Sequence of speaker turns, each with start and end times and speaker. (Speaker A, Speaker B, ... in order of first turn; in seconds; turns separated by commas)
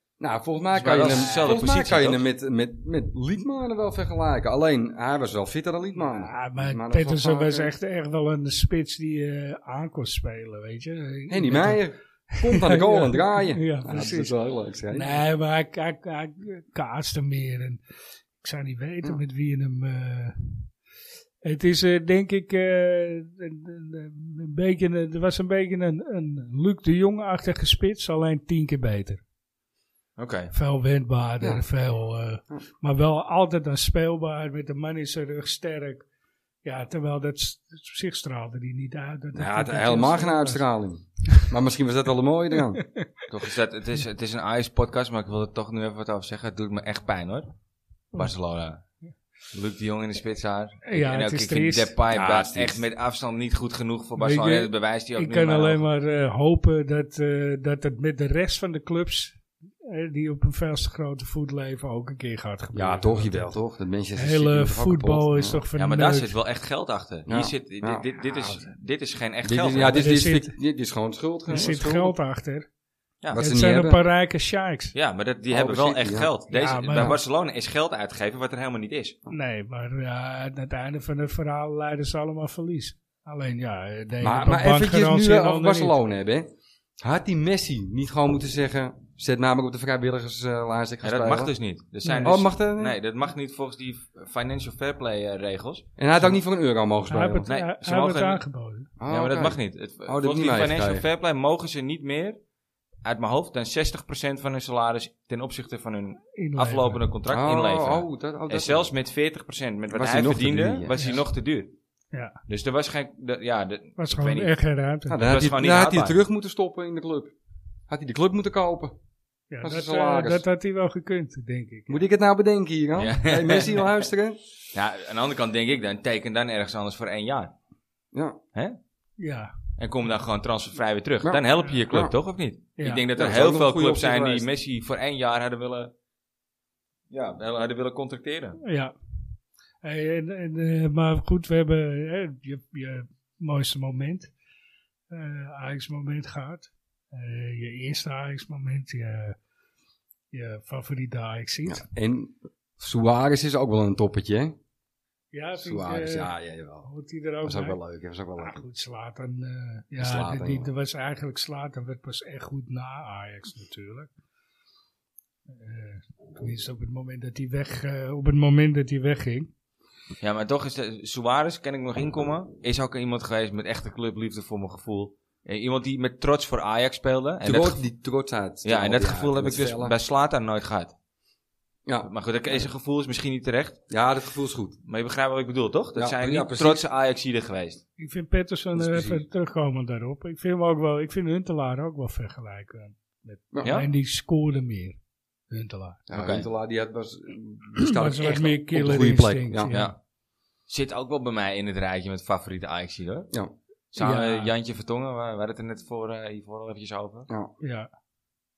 Speaker A: 0.2-7.7, Speaker B: 0.7-2.2, Speaker C: 6.0-14.3, Speaker A: 11.3-15.2, Speaker C: 14.9-17.8, Speaker C: 18.4-20.7, Speaker C: 21.4-29.2, Speaker B: 30.2-30.5, Speaker C: 30.5-36.0, Speaker C: 36.6-40.6, Speaker A: 39.3-42.8, Speaker C: 42.7-43.0, Speaker B: 43.3-47.5, Speaker B: 48.1-48.8, Speaker B: 49.5-55.8, Speaker C: 50.8-51.9, Speaker A: 52.1-52.8, Speaker C: 54.2-63.5, Speaker A: 62.7-65.6, Speaker C: 64.2-66.3, Speaker B: 65.8-70.0, Speaker A: 67.3-68.1, Speaker A: 69.4-72.1, Speaker C: 69.8-70.5, Speaker C: 71.5-72.7, Speaker A: 73.3-74.0, Speaker C: 73.3-74.9, Speaker B: 74.9-79.2, Speaker A: 75.5-76.3, Speaker C: 76.5-77.2, Speaker C: 79.3-85.9, Speaker A: 84.2-86.5, Speaker A: 87.0-91.5, Speaker B: 91.0-95.9, Speaker C: 92.0-92.4, Speaker A: 92.2-93.0, Speaker A: 96.0-97.5, Speaker C: 97.1-98.9, Speaker B: 97.5-98.4, Speaker A: 99.0-101.0, Speaker B: 99.1-102.4, Speaker B: 103.0-111.7, Speaker C: 106.3-107.0, Speaker A: 107.3-108.9, Speaker A: 109.9-110.9, Speaker C: 112.1-112.4, Speaker B: 112.5-114.5, Speaker C: 114.0-115.3, Speaker A: 115.1-117.3, Speaker B: 115.2-116.2, Speaker A: 117.9-118.9, Speaker C: 119.5-122.0, Speaker A: 119.6-120.4, Speaker A: 121.9-124.4, Speaker B: 123.0-123.9, Speaker B: 124.7-127.5, Speaker A: 128.1-128.4, Speaker C: 129.2-129.5, Speaker B: 129.8-135.9, Speaker A: 131.2-132.1, Speaker C: 132.8-133.1, Speaker A: 133.1-134.5, Speaker B: 137.1-138.6, Speaker C: 138.6-138.9, Speaker C: 139.8-144.3, Speaker C: 145.1-149.3, Speaker C: 150.3-151.8, Speaker A: 151.7-154.5, Speaker C: 155.3-156.3, Speaker A: 155.6-156.9, Speaker C: 156.8-157.8, Speaker A: 157.4-158.6, Speaker C: 158.4-164.1, Speaker A: 160.0-160.7, Speaker C: 165.5-169.5, Speaker B: 170.2-177.8, Speaker A: 177.4-179.9, Speaker B: 178.6-180.9, Speaker B: 182.0-183.8, Speaker A: 183.9-184.8, Speaker B: 184.8-187.8, Speaker A: 186.0-186.8, Speaker C: 188.0-195.0, Speaker A: 188.7-189.2, Speaker B: 193.6-193.9, Speaker C: 195.5-196.0, Speaker A: 196.1-199.7, Speaker B: 196.1-196.5, Speaker C: 197.8-199.9, Speaker B: 199.7-199.9, Speaker B: 200.7-203.3, Speaker B: 203.9-207.3, Speaker C: 204.0-204.5, Speaker C: 207.6-207.9